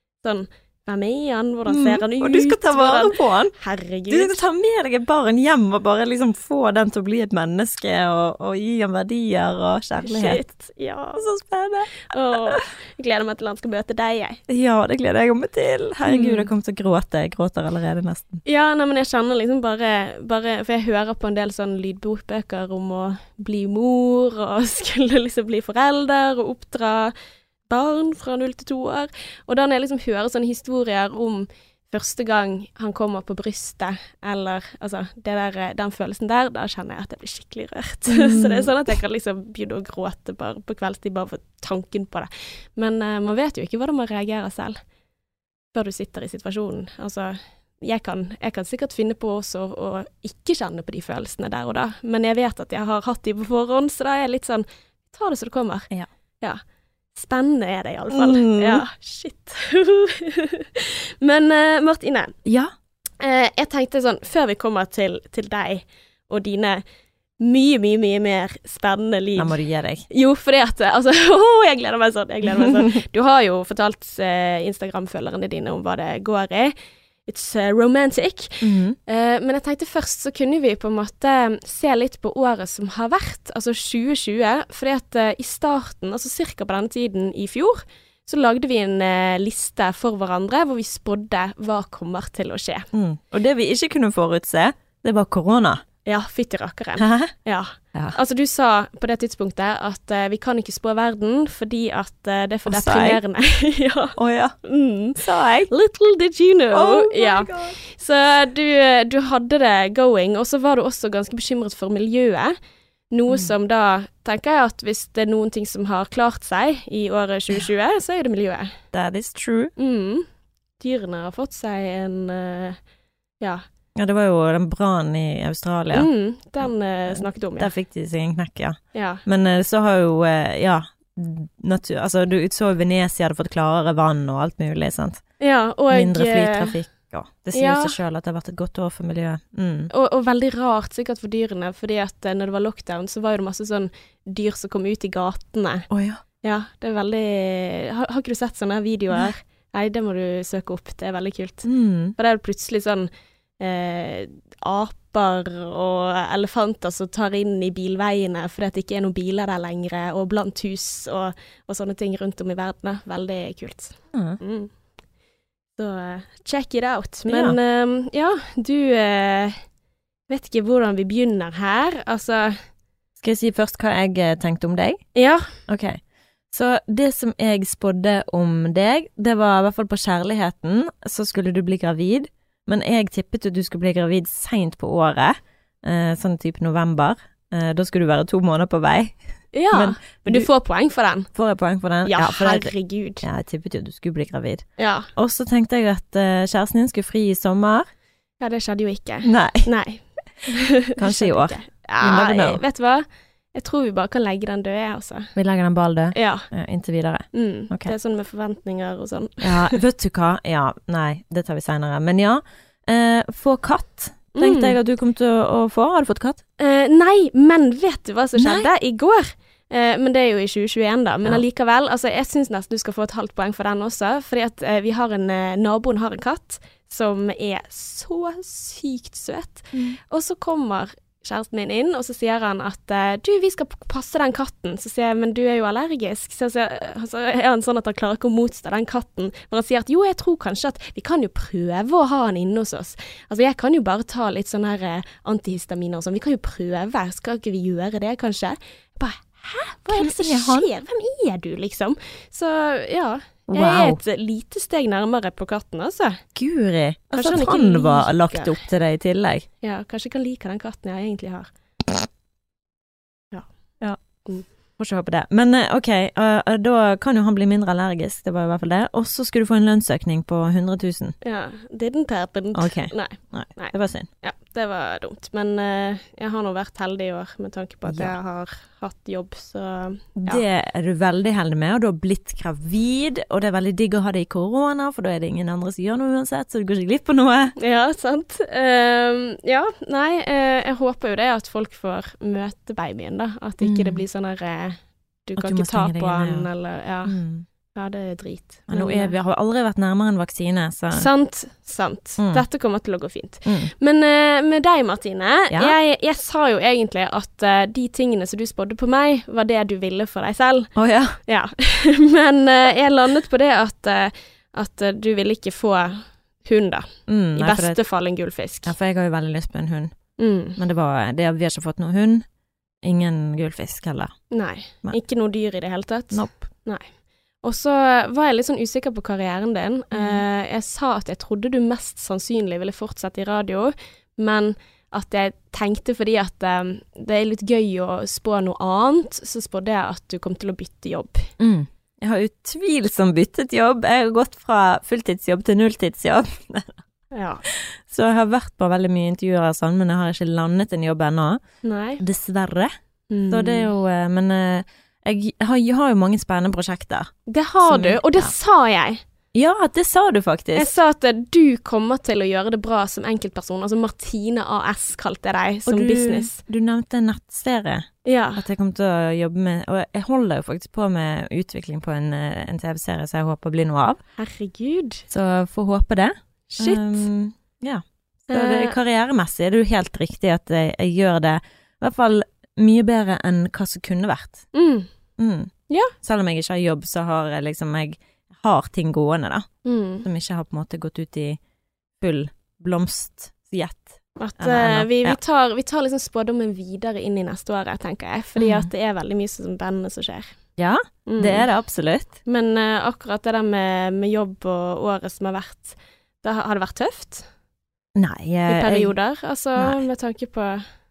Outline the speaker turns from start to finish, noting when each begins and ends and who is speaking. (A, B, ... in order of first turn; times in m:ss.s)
0:00.2-0:04.4 A
0:01.7-0:03.6 B
0:04.1-0:10.4 B
0:10.0-0:11.2 A
0:11.2-0:12.6 B
0:12.1-0:14.4 A
0:14.5-0:18.4 B
0:16.1-0:16.5 A
0:18.4-0:27.1 A
0:27.7-0:44.8 A
0:38.1-0:38.7 B
0:45.7-0:55.9 A
0:57.1-1:02.4 A
0:58.1-0:58.8 B
1:02.5-1:02.7 B
1:03.2-1:06.8 A
1:07.4-1:16.7 A
1:09.4-1:10.1 B
1:17.3-1:32.9 A
1:18.6-1:19.0 B
1:32.9-1:35.8 B
1:36.0-1:52.6 A
1:37.0-1:37.3 B
1:42.7-1:43.2 B
1:44.2-1:44.6 B
1:45.2-1:45.7 B
1:46.7-1:47.8 B
1:53.1-1:58.8 A
1:58.9-1:59.7 B
1:59.8-2:00.3 A
2:00.8-2:02.8 A
2:04.0-2:15.3 B
2:05.9-2:07.7 A
2:08.9-2:09.2 A
2:15.4-2:16.8 A
2:15.9-2:19.9 B
2:17.5-2:18.0 A
2:19.9-2:25.9 A
2:25.9-2:26.2 B
2:26.4-2:44.7 A
2:31.6-2:32.2 B
2:44.1-2:44.4 B
2:45.8-2:49.6 A
2:47.3-2:47.6 B
2:50.3-2:52.6 A
2:53.2-2:55.1 B
2:55.2-2:55.6 A
2:55.7-3:09.2 B
3:09.5-3:11.3 A
3:09.7-3:10.5 B
3:11.3-3:17.9 B
3:12.0-3:13.3 A
3:14.8-3:15.1 A
3:18.4-3:25.3 A
3:19.2-3:19.7 B
3:21.0-3:22.6 B
3:25.4-3:27.9 B
3:26.1-3:26.5 A
3:27.3-3:29.8 A
3:29.4-3:36.4 B
3:34.4-3:34.8 A
3:36.6-4:16.2 A
3:38.4-3:38.7 B
3:49.7-3:50.0 B
4:09.9-4:10.7 B
4:13.5-4:14.0 B
4:16.4-4:19.5 B
4:17.1-4:18.6 A
4:19.6-4:21.5 A
4:23.8-4:31.2 B
4:24.1-4:24.5 A
4:31.2-4:40.4 A
4:32.5-4:34.1 B
4:37.9-4:38.2 B
4:40.2-4:47.6 B
4:47.6-4:59.1 A
4:53.6-4:54.0 B
4:55.4-4:56.5 B
4:57.0-4:57.4 B
4:58.7-5:01.1 B
5:00.9-5:18.7 A
5:02.2-5:02.4 B
5:03.4-5:03.7 B
5:05.5-5:05.8 B
5:10.8-5:11.2 B
5:17.1-5:17.8 B
5:18.6-5:20.0 B
5:20.2-5:20.6 A
5:20.6-5:22.2 B
5:22.8-5:24.2 B
5:24.3-5:41.3 A
5:26.1-5:26.4 B
5:29.9-5:30.2 B
5:41.4-5:46.8 B
5:47.1-5:47.4 A
5:47.5-5:51.4 B
5:51.6-5:52.0 A
5:52.0-5:52.7 B
5:53.1-5:53.7 A
5:53.3-5:58.3 B
5:57.3-5:59.0 A
5:59.3-6:00.7 B
6:00.5-6:06.4 A
6:05.7-6:14.0 B
6:08.0-6:08.4 A
6:14.2-6:15.0 A
6:15.1-6:24.5 B
6:16.5-6:17.1 A
6:18.3-6:18.8 A
6:24.5-6:24.9 A
6:25.2-6:29.5 B
6:29.6-6:30.0 A
6:30.0-6:31.4 B
6:32.0-6:35.2 B
6:34.2-6:40.4 A
6:38.4-6:38.7 B
6:40.6-6:42.1 B
6:41.1-6:41.5 A
6:42.2-6:47.3 A
6:48.0-6:49.0 B
6:48.5-6:50.7 A
6:49.6-6:49.8 B